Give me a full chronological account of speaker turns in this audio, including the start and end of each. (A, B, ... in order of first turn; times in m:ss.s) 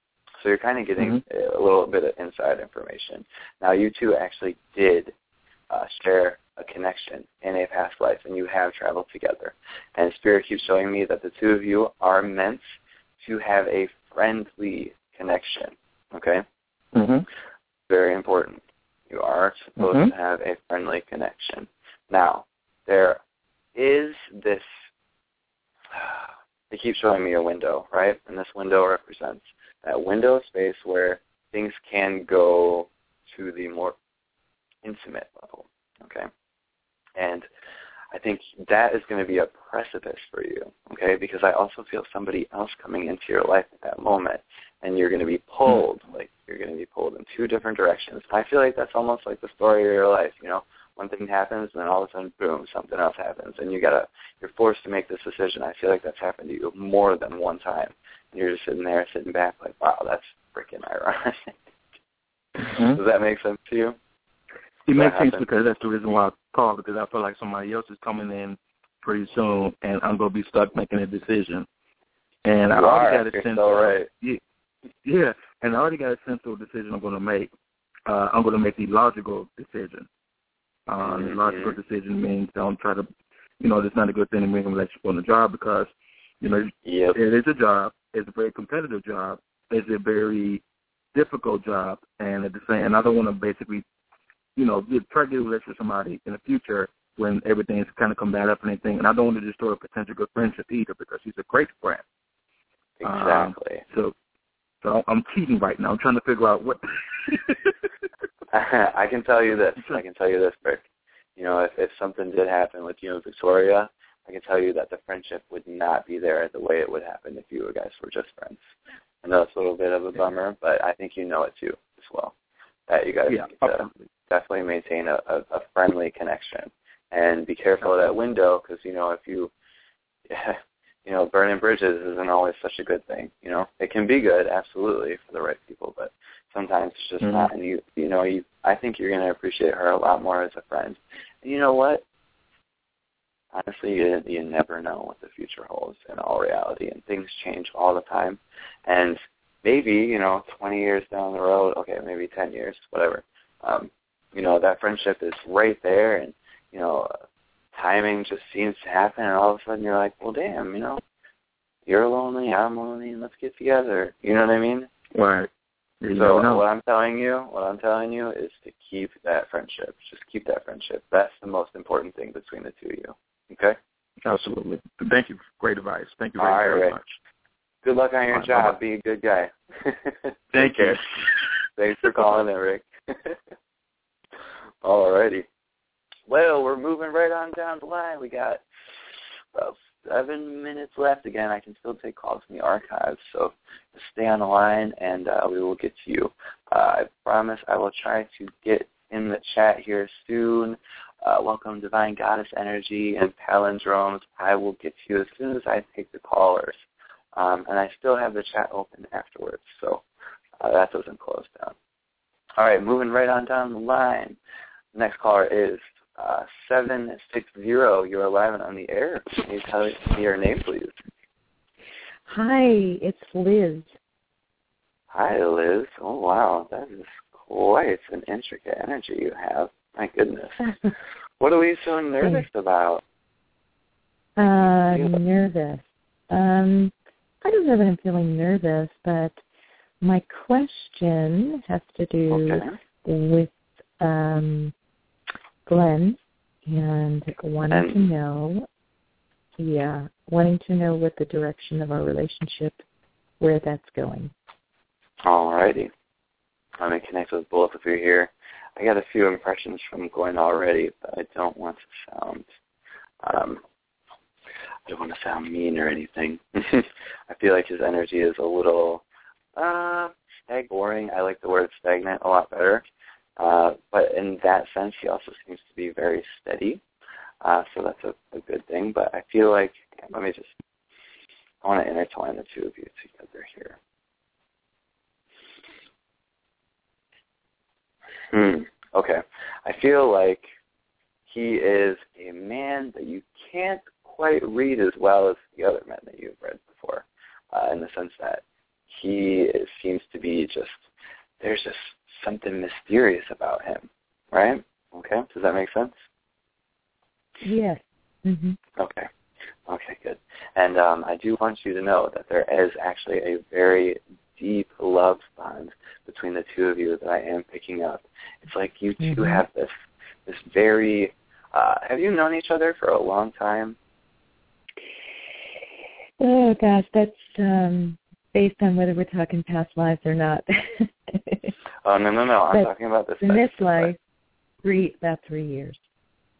0:00.4-0:05.1 A
0:05.7-0:12.6 A
0:13.2-0:16.4 A
0:17.0-0:17.3 B
0:17.9-0:23.2 A
0:19.8-0:20.1 B
0:23.8-0:24.7 A
0:25.9-0:34.0 A
0:34.8-0:36.3 A
0:37.2-0:37.5 A
0:38.1-1:01.6 A
1:02.6-1:04.0 A
1:02.6-1:03.0 B
1:04.9-1:11.7 B
1:05.0-1:05.5 A
1:12.4-1:14.4 B
1:12.7-1:14.1 A
1:15.0-1:17.5 B
1:18.1-1:20.1 B
1:20.9-1:23.1 B
1:21.0-1:21.8 A
1:23.6-1:25.9 B
1:26.4-1:30.6 B
1:26.8-1:27.2 A
1:31.1-1:33.8 B
1:34.6-1:42.0 B
1:43.0-1:43.8 A
1:43.0-1:44.1 B
1:44.8-1:47.7 B
1:48.5-1:50.8 A
1:51.4-1:58.6 A
1:59.2-2:02.3 A
2:02.9-2:09.5 A
2:03.3-2:03.9 B
2:10.3-2:22.0 A
2:17.2-2:17.5 B
2:23.5-2:37.1 A
2:37.7-2:41.0 A
2:41.9-2:44.9 A
2:45.1-2:45.5 B
2:46.0-2:46.6 B
2:46.1-2:53.8 A
2:54.2-2:57.2 B
2:56.4-2:57.0 A
2:57.8-3:01.0 A
2:58.3-2:58.8 B
3:00.5-3:01.2 B
3:01.8-3:03.4 A
3:04.8-3:05.5 A
3:06.3-3:08.6 A
3:09.5-3:26.8 A
3:27.3-3:30.0 A
3:30.6-3:31.8 A
3:32.6-3:34.4 A
3:35.0-3:40.9 A
3:42.3-3:43.9 C
3:45.1-3:50.7 A
3:51.4-3:53.0 A
3:54.4-3:59.4 C
4:00.0-4:04.7 C
4:02.3-4:02.7 A
4:05.7-4:08.7 C
4:07.7-4:08.1 A
4:09.6-4:12.8 C
4:13.4-4:14.3 C
4:15.2-4:15.9 A
4:16.8-4:22.5 A
4:23.2-4:23.6 A
4:24.9-4:29.0 A
4:29.6-4:32.8 A
4:33.4-4:36.8 A
4:37.4-4:40.5 A
4:41.6-4:43.8 A
4:48.3-4:50.5 A
4:51.3-5:00.8 A
5:01.4-5:05.9 A
5:07.4-5:08.6 C
5:08.8-5:09.1 A
5:09.7-5:19.7 A
5:19.0-5:19.4 C
5:20.3-5:23.8 A
5:26.2-5:31.5 C
5:31.8-5:33.9 A
5:33.2-5:34.0 C
5:34.6-5:35.8 C